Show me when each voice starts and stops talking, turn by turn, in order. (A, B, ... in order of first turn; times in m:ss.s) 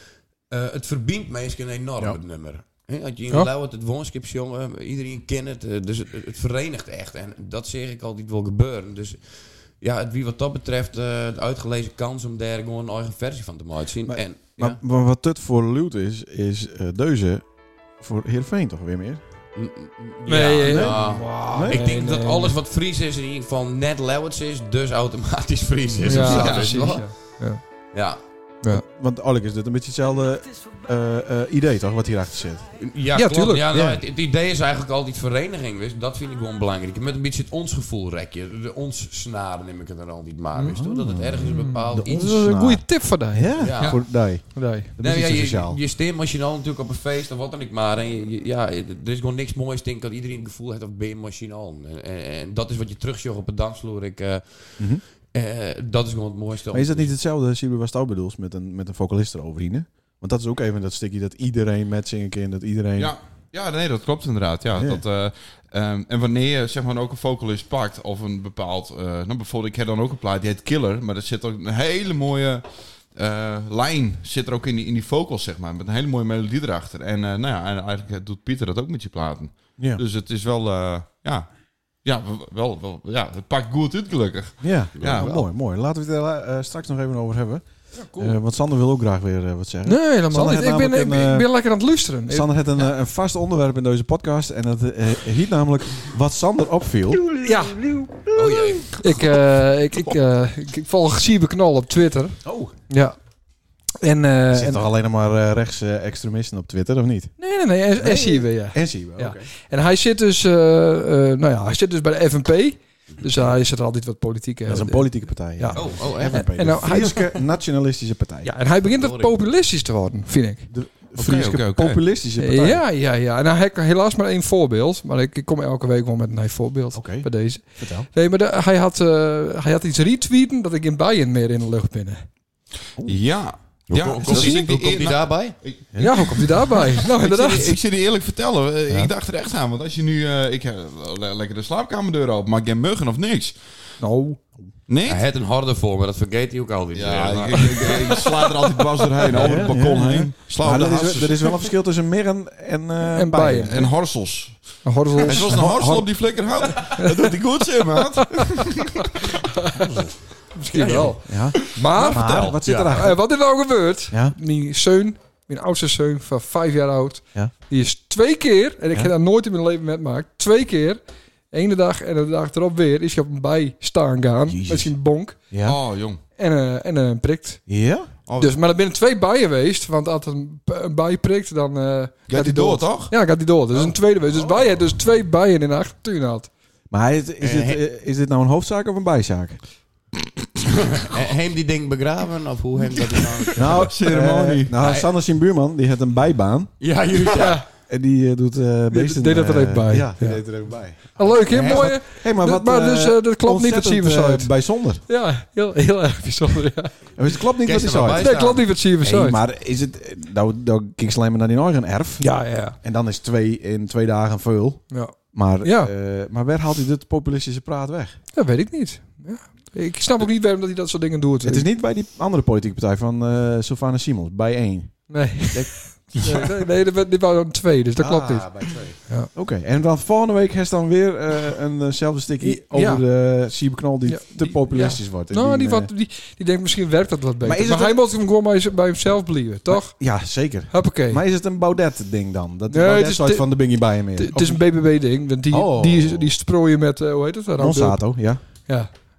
0:00.5-0:14.8 A
0:14.0-0:17.4 B
0:18.0-0:19.2 B
0:19.5-0:27.2 A
0:20.3-0:22.6 C
0:20.6-0:21.0 B
0:21.5-0:21.8 B
0:26.0-0:27.6 C
0:26.2-0:26.8 D
0:27.9-0:28.2 A
0:28.6-0:32.6 B
0:32.8-0:42.4 A
0:33.1-0:33.7 C
0:33.7-0:34.0 B
0:40.7-0:45.8 B
0:41.4-0:44.9 C
0:43.6-0:44.4 A
0:45.0-0:57.1 A
0:56.7-1:03.1 B
1:03.0-1:21.5 D
1:04.8-1:05.0 B
1:22.0-1:25.4 D
1:24.6-1:31.5 B
1:25.0-1:25.4 A
1:29.8-1:32.5 C
1:32.3-1:37.3 B
1:37.3-1:38.0 C
1:38.3-1:39.0 A
1:38.9-1:43.2 C
1:42.4-1:42.7 B
1:44.0-1:44.8 C
1:44.5-1:47.3 B
1:47.4-1:57.3 C
1:48.0-1:49.5 B
1:54.7-1:58.5 B
1:55.7-1:57.3 A
1:58.4-2:00.7 C
1:58.8-1:59.3 A
2:00.7-2:02.8 B
2:01.2-2:02.0 D
2:02.4-2:12.3 C
2:06.9-2:08.1 B
2:13.0-2:23.6 D
2:13.9-2:15.6 A
2:14.3-2:14.6 B
2:15.9-2:16.4 B
2:16.0-2:17.8 C
2:24.0-2:24.4 C
2:24.9-2:25.2 D
2:25.0-2:28.2 A
2:26.9-2:31.6 D
2:29.3-2:33.9 B
2:33.0-2:33.9 C
2:33.6-2:39.3 D
2:34.8-2:35.7 C
2:35.2-2:36.1 B
2:37.0-2:37.2 C
2:38.2-2:38.5 C
2:39.4-2:40.0 C
2:40.5-2:51.0 C
2:40.7-2:41.2 A
2:41.2-2:43.2 B
2:42.0-2:43.0 A
2:51.5-2:55.4 C
2:54.5-2:54.9 B
2:55.5-2:55.8 B
2:55.6-2:56.2 D
2:56.4-2:57.6 C
2:57.7-2:58.1 B
2:58.2-2:58.6 D
2:58.4-3:06.5 C
3:02.3-3:03.1 D
3:06.9-3:09.6 B
3:07.4-3:07.8 A
3:11.0-3:13.9 A
3:13.6-3:16.7 B
3:13.6-3:14.8 D
3:14.8-3:15.1 A
3:16.8-3:17.6 A
3:17.3-3:17.6 C
3:17.8-3:25.0 B
3:18.9-3:20.5 C
3:21.1-3:27.1 C
3:21.4-3:21.9 A
3:27.1-3:38.2 B
3:27.6-3:28.7 A
3:28.2-3:29.4 C
3:32.2-3:32.8 C
3:34.9-3:35.9 C
3:38.3-3:41.7 C
3:41.4-3:45.0 B
3:45.1-3:49.3 C
3:45.5-3:46.4 A
3:48.0-3:55.9 B
3:52.4-3:53.0 C
3:54.0-4:00.0 C
3:57.4-3:58.0 B
3:59.7-4:04.6 B
4:00.7-4:01.2 C
4:02.7-4:08.9 C
4:05.5-4:06.3 B
4:07.6-4:08.4 B